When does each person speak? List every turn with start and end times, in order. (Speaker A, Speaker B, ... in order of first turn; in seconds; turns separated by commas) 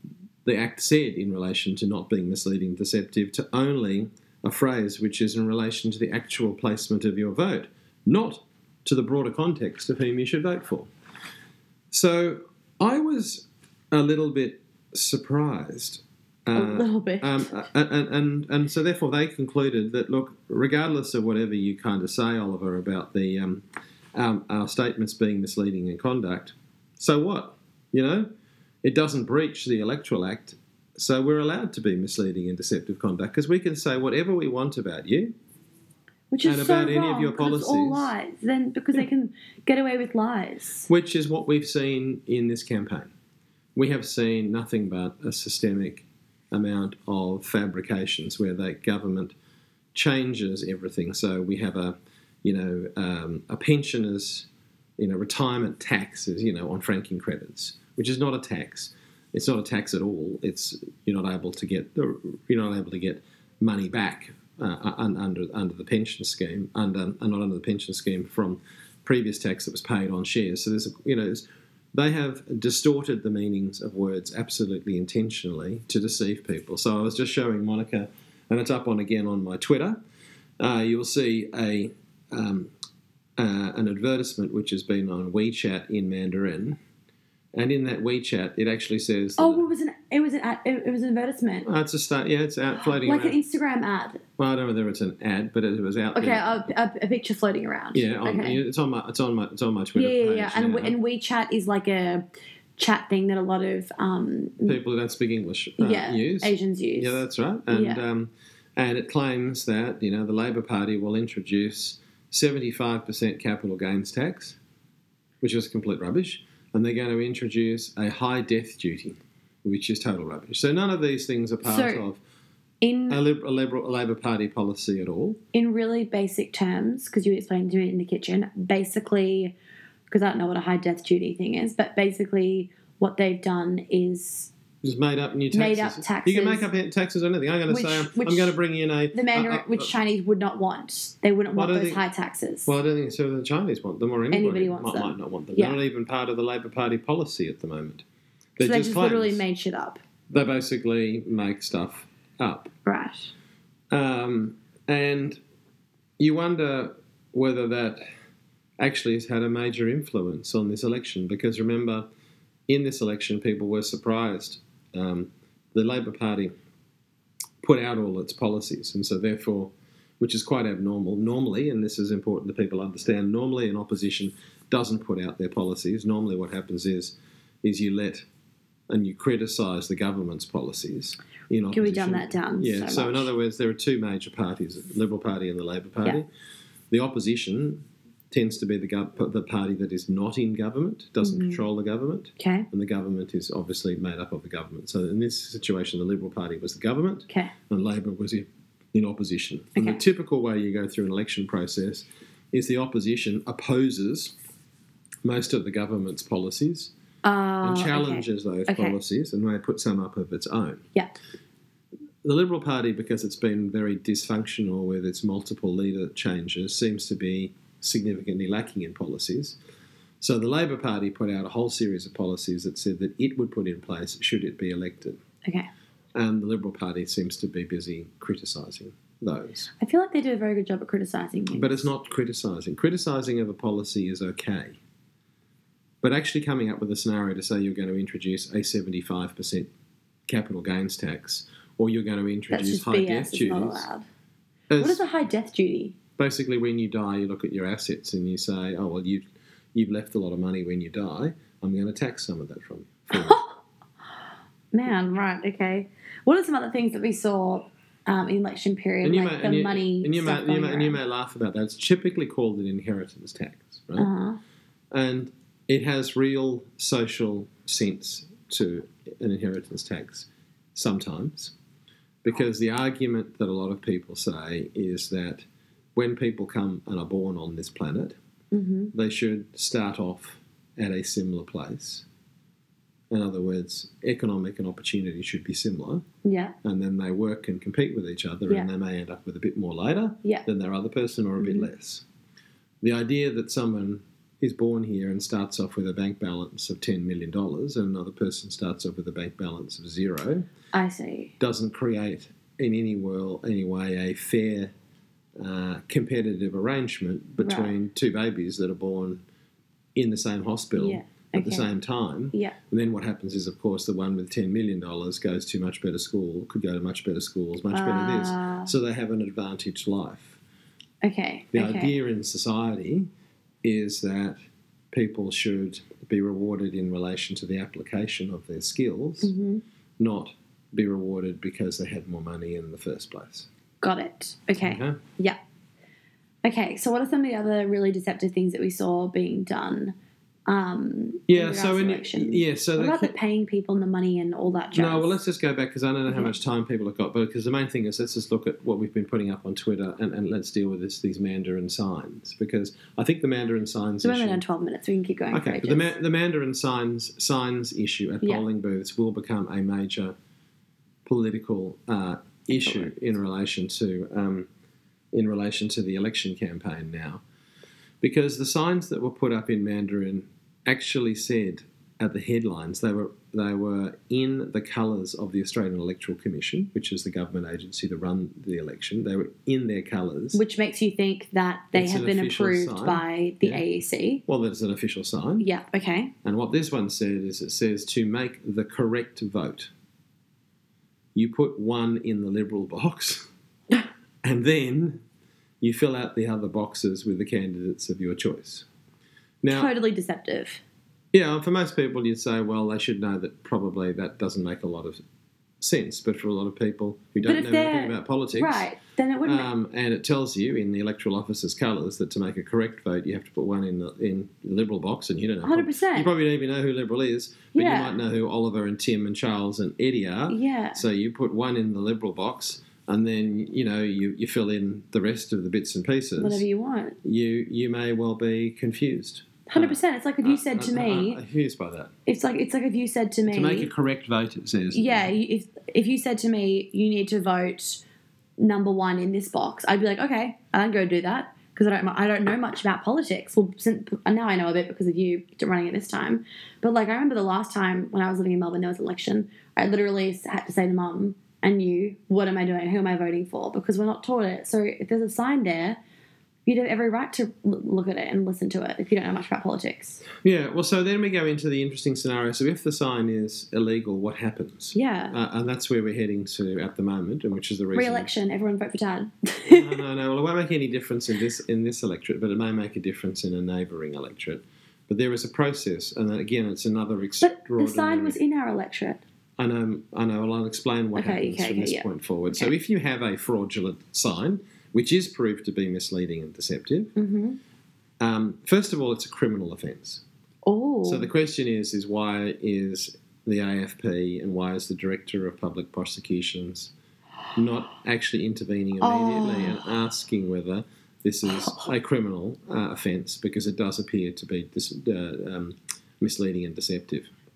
Speaker A: 0.4-10.9, Speaker A: 11.9-28.3, Speaker B: 16.5-17.5, Speaker A: 28.8-35.3, Speaker B: 36.3-40.9, Speaker A: 36.4-38.1, Speaker A: 40.9-43.1, Speaker A: 43.8-49.3, Speaker A: 49.9-80.0, Speaker A: 80.6-82.7, Speaker A: 83.4-86.8, Speaker A: 87.5-89.7, Speaker B: 89.4-91.7, Speaker A: 91.6-93.4, Speaker B: 92.8-94.2, Speaker A: 94.4-96.7, Speaker B: 96.2-98.6, Speaker A: 97.9-101.0, Speaker B: 100.0-104.8, Speaker A: 104.6-114.6, Speaker B: 105.8-108.0, Speaker A: 115.4-122.2, Speaker B: 121.6-122.0, Speaker B: 122.8-123.2, Speaker A: 123.1-125.4, Speaker B: 125.5-129.6, Speaker B: 130.1-134.5, Speaker A: 134.8-139.9, Speaker B: 135.5-136.7, Speaker B: 137.7-138.6, Speaker B: 139.1-142.7, Speaker A: 141.6-142.0, Speaker A: 142.7-148.0, Speaker B: 144.3-145.8, Speaker A: 148.6-149.4, Speaker B: 148.6-150.0, Speaker A: 150.3-152.7, Speaker B: 152.8-153.3, Speaker A: 153.9-155.4, Speaker A: 156.2-158.0, Speaker A: 158.8-162.1, Speaker A: 162.7-166.5, Speaker A: 167.6-178.3, Speaker A: 178.9-186.3, Speaker B: 181.7-183.3, Speaker A: 186.9-204.3, Speaker B: 191.2-191.6, Speaker B: 192.4-192.7, Speaker A: 205.2-206.9, Speaker B: 207.2-209.0, Speaker A: 207.6-210.9, Speaker A: 212.2-219.6, Speaker A: 220.2-225.2, Speaker B: 225.4-225.7, Speaker A: 226.2-229.7, Speaker B: 229.8-231.9, Speaker A: 231.5-234.8, Speaker A: 236.0-239.7, Speaker A: 240.3-243.9, Speaker B: 242.5-244.1, Speaker A: 244.7-245.0, Speaker B: 244.8-246.0, Speaker A: 246.2-253.4, Speaker B: 253.1-253.6, Speaker B: 254.7-261.0, Speaker A: 259.0-264.1, Speaker B: 264.0-264.4, Speaker A: 264.9-271.6, Speaker A: 272.2-278.2, Speaker B: 278.5-278.9, Speaker A: 278.9-282.1, Speaker A: 283.1-286.1, Speaker B: 286.2-286.6, Speaker A: 286.6-292.1, Speaker B: 291.4-291.7, Speaker A: 292.8-300.5, Speaker B: 300.7-301.3, Speaker A: 301.4-304.7, Speaker A: 305.4-309.2, Speaker B: 307.4-307.7, Speaker A: 310.0-320.4, Speaker B: 310.8-311.7, Speaker B: 317.7-318.7, Speaker B: 321.0-321.9, Speaker A: 321.5-323.1, Speaker A: 323.6-324.4, Speaker A: 324.9-329.3, Speaker B: 329.2-329.6, Speaker A: 330.0-333.5, Speaker B: 333.8-335.4, Speaker A: 334.6-335.0, Speaker B: 336.4-339.9, Speaker B: 340.5-345.2, Speaker A: 341.3-343.1, Speaker A: 344.7-354.4, Speaker B: 346.1-346.3, Speaker B: 354.0-355.9, Speaker A: 355.3-360.1, Speaker A: 361.1-364.5, Speaker B: 362.5-362.9, Speaker A: 365.1-367.2, Speaker A: 368.0-380.4, Speaker B: 380.3-384.2, Speaker A: 381.7-383.6, Speaker A: 384.3-385.5, Speaker B: 385.4-386.1, Speaker A: 386.2-389.7, Speaker A: 391.1-393.3, Speaker A: 394.2-395.0, Speaker A: 395.6-398.7, Speaker A: 399.4-399.7, Speaker B: 399.5-400.6, Speaker A: 401.1-405.0, Speaker A: 405.6-408.7, Speaker B: 407.2-409.5, Speaker A: 409.2-426.4, Speaker B: 415.4-416.1, Speaker B: 417.6-417.9, Speaker B: 420.3-420.8, Speaker B: 426.2-427.0, Speaker A: 427.0-431.9, Speaker B: 429.5-431.2, Speaker B: 432.1-433.7, Speaker A: 433.3-435.1, Speaker B: 434.7-437.8, Speaker B: 438.4-455.8, Speaker B: 456.5-460.0, Speaker A: 460.2-468.1, Speaker B: 464.7-465.1, Speaker B: 467.8-469.8, Speaker A: 469.5-478.2, Speaker B: 477.2-479.0, Speaker A: 479.4-486.9, Speaker B: 480.9-482.5, Speaker B: 487.0-487.4, Speaker A: 488.0-490.0, Speaker B: 490.4-491.1, Speaker A: 490.8-496.7, Speaker A: 497.4-507.1, Speaker B: 498.8-499.7